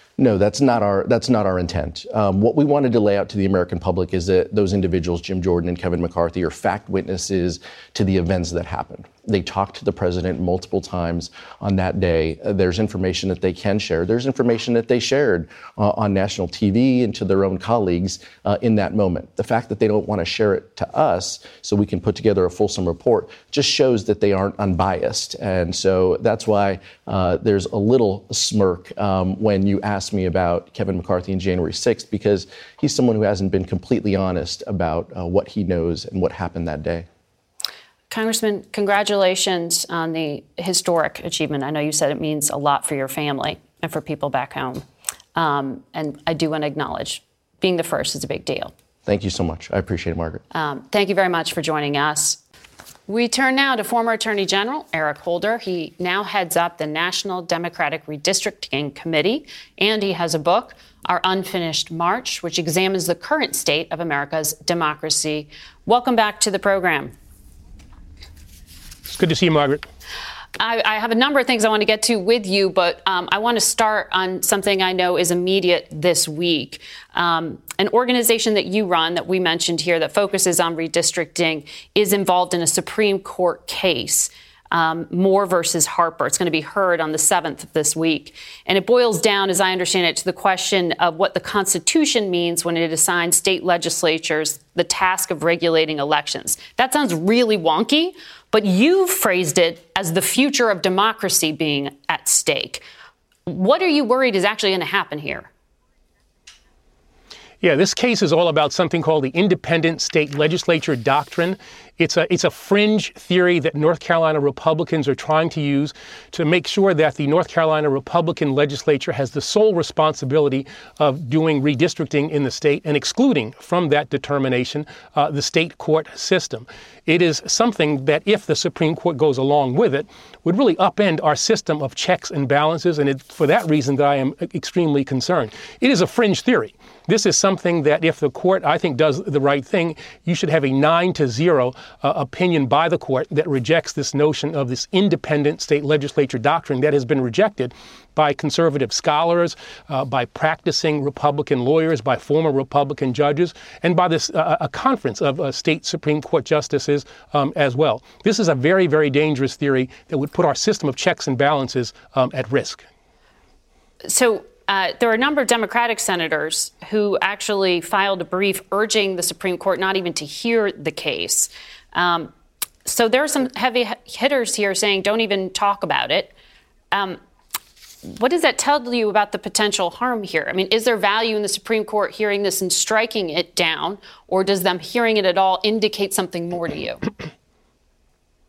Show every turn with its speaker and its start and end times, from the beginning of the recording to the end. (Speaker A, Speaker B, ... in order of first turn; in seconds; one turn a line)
Speaker A: 0.2-37.1
Speaker B: 38.1-48.7
Speaker A: 49.1-50.4
Speaker B: 50.5-52.4
Speaker B: 53.1-67.1
Speaker C: 69.1-69.9
Speaker B: 70.6-102.8
Speaker B: 103.5-105.5
Speaker C: 107.6-162.9
Speaker B: 164.1-172.3
Speaker B: 172.9-176.3
Speaker B: 176.9-177.2
Speaker B: 178.0-187.0